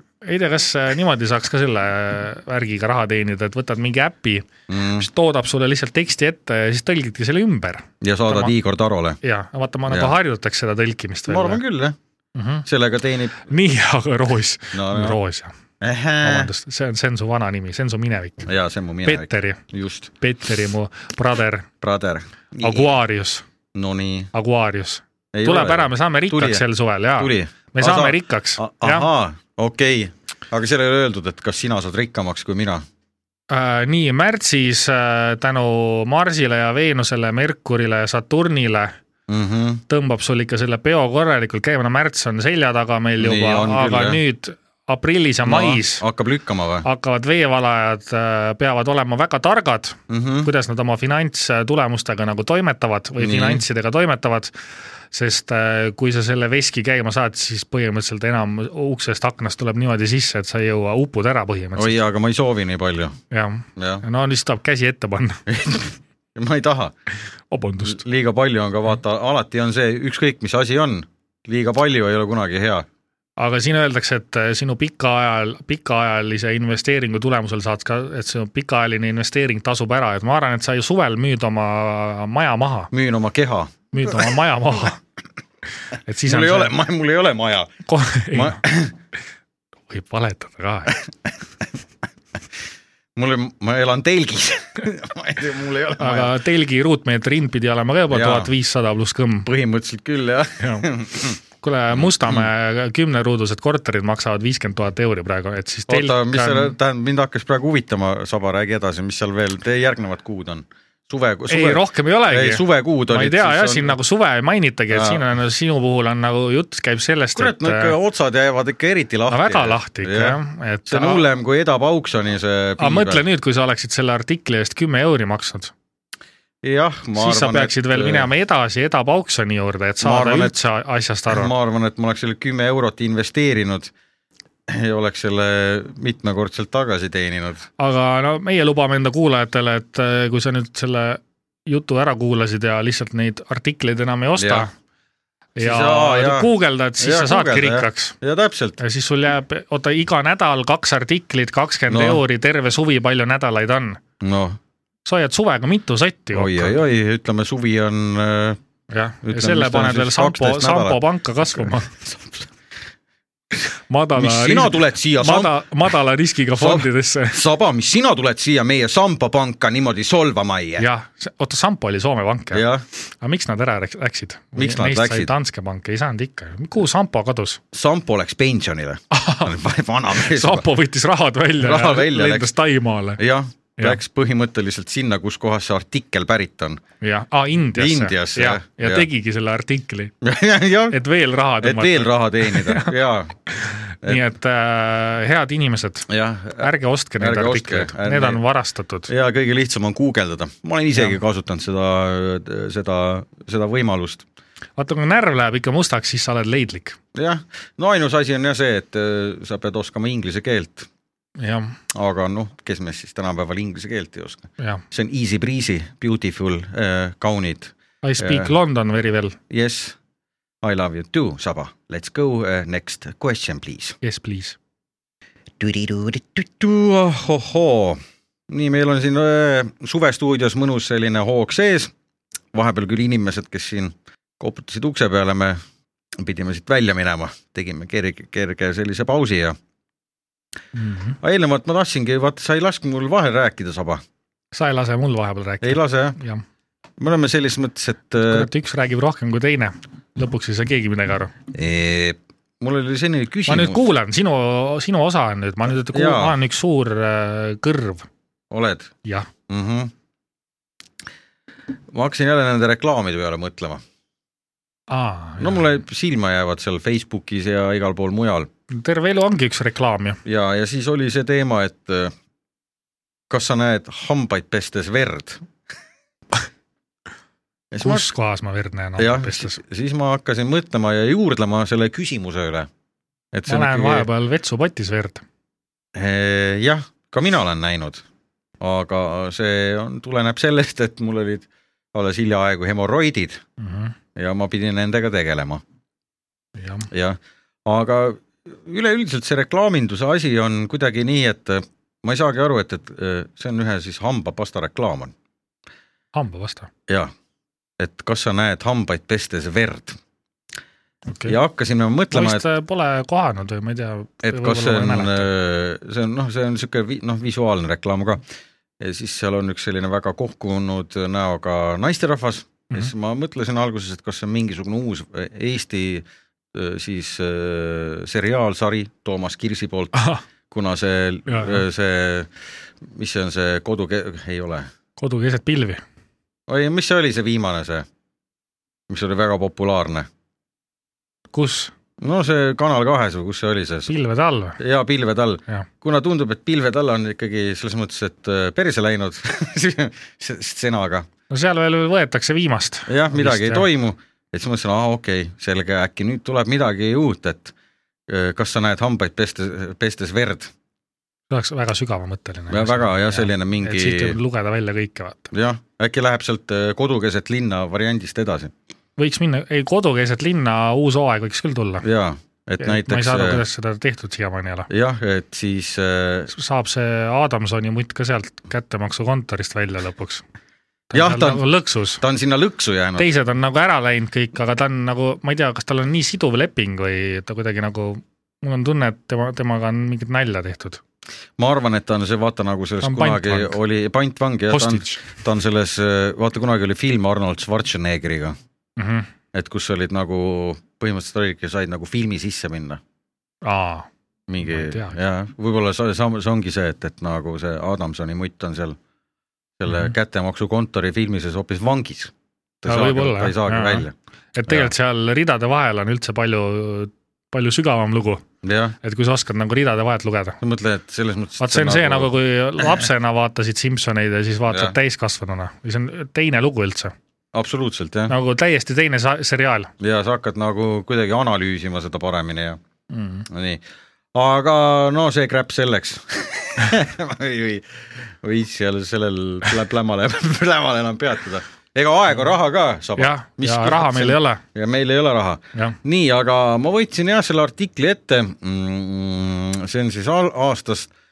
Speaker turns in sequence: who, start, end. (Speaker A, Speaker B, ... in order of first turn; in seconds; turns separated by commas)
Speaker A: 0.2-8.5, Speaker B: 4.7-5.1, Speaker B: 8.0-9.2, Speaker A: 9.2-11.6, Speaker B: 9.9-10.1, Speaker B: 11.3-12.0, Speaker A: 12.3-12.7, Speaker B: 12.7-13.5, Speaker A: 13.4-15.5, Speaker B: 14.7-15.2, Speaker B: 15.8-16.5, Speaker A: 16.2-18.5, Speaker B: 18.4-20.1, Speaker A: 19.0-19.6, Speaker A: 20.2-21.7, Speaker B: 21.8-22.9, Speaker A: 22.6-23.4, Speaker B: 23.7-24.3, Speaker A: 24.3-29.1, Speaker B: 25.3-26.6, Speaker B: 27.2-32.8, Speaker A: 33.5-38.9, Speaker B: 39.3-39.8, Speaker A: 39.9-46.0, Speaker B: 43.2-44.2, Speaker B: 45.4-46.9, Speaker A: 46.8-54.5, Speaker B: 50.1-50.5, Speaker B: 53.2-53.6, Speaker A: 55.1-62.0, Speaker B: 61.8-63.2, Speaker A: 63.3-65.4, Speaker B: 63.8-64.0, Speaker B: 65.5-66.9, Speaker A: 67.5-68.0, Speaker B: 67.8-72.8, Speaker A: 73.4-82.9, Speaker B: 82.9-84.3, Speaker A: 83.9-85.0, Speaker A: 86.0-86.7, Speaker B: 86.2-87.7, Speaker A: 87.9-88.6, Speaker B: 88.3-88.9, Speaker A: 89.9-91.0, Speaker B: 93.2-96.3, Speaker A: 96.0-99.5, Speaker B: 98.1-98.5, Speaker B: 99.5-101.4, Speaker A: 100.6-100.8, Speaker A: 101.6-106.7, Speaker B: 101.9-102.5, Speaker B: 105.9-114.0, Speaker A: 111.5-117.9, Speaker B: 114.9-115.2, Speaker B: 117.3-123.2, Speaker A: 119.3-121.2, Speaker A: 122.8-125.7, Speaker B: 126.6-128.3, Speaker A: 127.2-131.5, Speaker B: 130.0-130.5, Speaker B: 131.3-133.9, Speaker B: 134.7-137.7, Speaker A: 137.8-144.7, Speaker B: 144.4-144.7, Speaker A: 145.6-148.2, Speaker B: 145.6-148.8, Speaker A: 148.8-154.0, Speaker B: 151.9-152.2, Speaker B: 154.2-154.6, Speaker A: 155.1-156.7, Speaker B: 156.3-158.6, Speaker A: 158.9-161.9, Speaker B: 159.2-161.0, Speaker B: 161.6-162.5, Speaker A: 163.9-167.4, Speaker B: 164.2-165.5, Speaker B: 166.5-170.9, Speaker A: 170.8-177.6, Speaker B: 172.5-172.8, Speaker B: 174.6-175.3, Speaker B: 177.7-180.7, Speaker A: 179.1-179.5, Speaker A: 180.1-183.2, Speaker B: 181.6-182.5, Speaker B: 183.2-186.8, Speaker A: 187.0-190.1, Speaker B: 187.7-189.1, Speaker B: 190.2-191.0, Speaker A: 190.9-192.9, Speaker B: 191.6-193.3, Speaker A: 193.5-199.1, Speaker B: 196.1-198.4, Speaker B: 199.1-204.2, Speaker A: 204.8-207.0, Speaker B: 207.1-210.9, Speaker A: 211.4-211.8, Speaker B: 211.9-218.5, Speaker A: 218.0-219.4, Speaker B: 219.5-220.0, Speaker B: 220.6-224.0, Speaker A: 224.0-224.6, Speaker B: 225.6-231.9, Speaker B: 232.5-235.6, Speaker B: 236.1-239.6, Speaker A: 240.7-241.2, Speaker B: 241.2-244.0, Speaker A: 244.5-246.4, Speaker B: 245.6-246.2, Speaker B: 247.0-248.5, Speaker A: 248.2-251.3, Speaker B: 251.5-253.8, Speaker A: 253.5-258.1, Speaker B: 255.9-256.4, Speaker B: 258.5-258.9, Speaker A: 259.0-259.3, Speaker B: 259.5-259.9, Speaker B: 261.9-263.8, Speaker A: 264.9-265.6, Speaker B: 265.4-268.5, Speaker A: 268.7-270.2, Speaker B: 270.2-272.1, Speaker B: 273.3-275.4, Speaker B: 277.7-278.1, Speaker A: 277.8-279.6, Speaker B: 279.0-282.7, Speaker B: 283.3-284.1, Speaker A: 283.5-285.2, Speaker B: 285.9-288.0, Speaker B: 288.6-293.4, Speaker A: 293.6-293.9, Speaker B: 294.1-295.6, Speaker A: 296.6-296.9, Speaker B: 296.9-305.1, Speaker A: 306.1-306.7, Speaker B: 307.8-310.0, Speaker A: 311.1-311.4, Speaker B: 311.2-312.4, Speaker A: 312.1-315.3, Speaker B: 314.2-318.2, Speaker B: 318.8-332.3, Speaker A: 329.9-330.2, Speaker A: 331.3-331.6, Speaker B: 332.8-334.7, Speaker A: 335.0-335.8, Speaker B: 336.5-337.9, Speaker B: 338.9-340.1, Speaker A: 341.3-341.7, Speaker B: 342.0-343.9, Speaker A: 343.9-344.6, Speaker B: 344.6-351.1, Speaker A: 351.3-353.6, Speaker B: 352.9-357.5, Speaker B: 358.1-360.5, Speaker A: 361.3-365.3, Speaker B: 362.5-364.2, Speaker B: 365.3-368.5, Speaker A: 369.0-371.9, Speaker B: 371.8-373.4, Speaker A: 372.6-374.7, Speaker B: 374.7-376.3, Speaker A: 376.3-380.2, Speaker A: 380.9-382.0, Speaker B: 380.9-381.4, Speaker B: 382.0-383.1, Speaker A: 383.0-390.8, Speaker B: 391.4-398.4, Speaker A: 392.8-393.6, Speaker A: 394.5-395.1, Speaker A: 398.8-399.1, Speaker B: 399.3-402.8, Speaker A: 403.4-403.9, Speaker B: 404.3-408.8, Speaker A: 404.4-405.0, Speaker B: 409.6-413.9, Speaker A: 412.6-418.2, Speaker B: 414.5-414.7, Speaker B: 418.4-418.8, Speaker A: 418.8-420.4, Speaker B: 420.4-422.1, Speaker A: 421.4-426.9, Speaker B: 424.5-424.7, Speaker B: 427.3-428.1, Speaker A: 428.1-429.7, Speaker B: 429.8-432.6, Speaker A: 432.9-433.2, Speaker B: 433.3-433.6, Speaker B: 434.1-450.9, Speaker A: 443.0-444.4